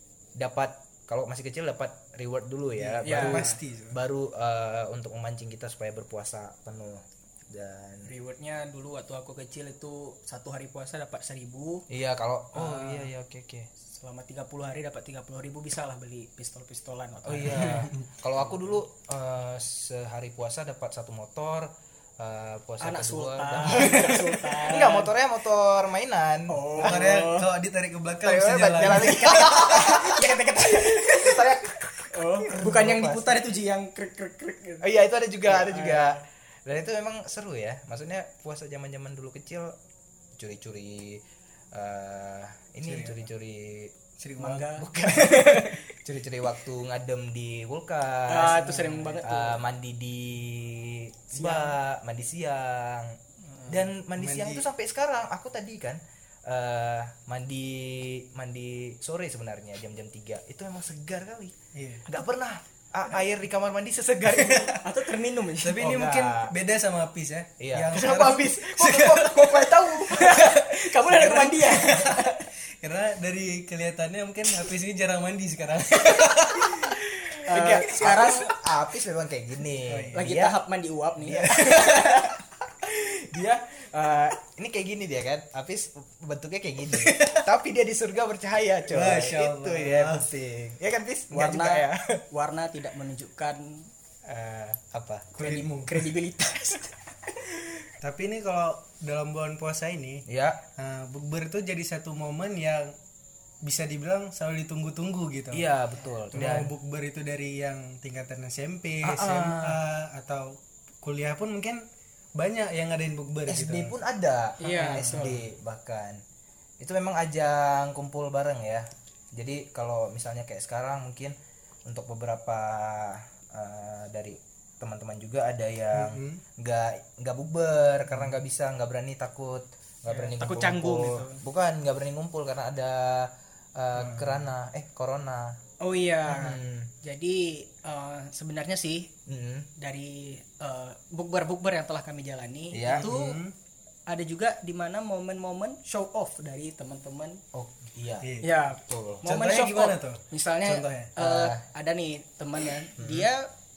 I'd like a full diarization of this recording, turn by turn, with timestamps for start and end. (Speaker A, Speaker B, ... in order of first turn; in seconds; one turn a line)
Speaker A: 0.3-8.1
Speaker B: 2.8-4.0
Speaker C: 3.0-3.6
Speaker C: 8.1-11.8
Speaker A: 11.9-13.7
Speaker C: 12.5-13.1
Speaker C: 13.8-17.9
Speaker A: 17.2-27.1
Speaker B: 17.4-18.5
Speaker C: 22.8-25.1
Speaker B: 23.8-24.1
Speaker C: 26.5-27.5
Speaker B: 26.8-29.5
Speaker A: 28.2-33.4
Speaker C: 29.2-31.5
Speaker C: 32.1-34.9
Speaker A: 34.8-39.8
Speaker C: 35.5-36.2
Speaker A: 40.4-43.9
Speaker B: 42.8-43.3
Speaker B: 44.2-44.7
Speaker C: 44.4-45.9
Speaker A: 44.8-53.1
Speaker C: 48.3-49.6
Speaker C: 51.3-51.8
Speaker A: 53.7-61.5
Speaker B: 54.1-54.6
Speaker B: 61.7-62.0
Speaker A: 62.0-64.8
Speaker B: 64.3-64.8
Speaker C: 64.8-65.8
Speaker B: 65.6-78.4
Speaker A: 65.8-66.5
Speaker A: 67.6-68.1
Speaker C: 67.9-72.5
Speaker C: 76.6-78.5
Speaker A: 77.5-80.6
Speaker B: 79.8-80.3
Speaker C: 80.1-84.4
Speaker A: 81.2-81.9
Speaker A: 84.4-92.1
Speaker B: 87.0-87.4
Speaker B: 88.9-90.3
Speaker C: 91.3-93.9
Speaker A: 94.2-95.3
Speaker B: 95.3-96.1
Speaker C: 95.4-97.9
Speaker B: 98.0-100.2
Speaker A: 100.3-100.6
Speaker B: 100.8-102.9
Speaker B: 103.6-105.7
Speaker A: 105.5-106.7
Speaker B: 106.3-111.8
Speaker A: 109.0-109.8
Speaker B: 112.3-114.0
Speaker A: 113.5-116.2
Speaker C: 114.6-115.4
Speaker B: 114.7-115.4
Speaker A: 116.8-121.3
Speaker A: 121.8-135.6
Speaker B: 125.9-126.4
Speaker B: 128.1-128.4
Speaker C: 130.1-131.4
Speaker B: 133.9-134.4
Speaker C: 135.8-139.1
Speaker A: 136.3-136.9
Speaker A: 139.3-139.7
Speaker C: 139.8-143.4
Speaker A: 142.7-143.1
Speaker B: 142.8-143.5
Speaker C: 144.1-147.4
Speaker A: 147.5-148.3
Speaker B: 148.2-148.5
Speaker C: 148.4-153.5
Speaker A: 148.8-149.2
Speaker B: 149.2-151.1
Speaker A: 151.2-151.6
Speaker A: 153.0-153.3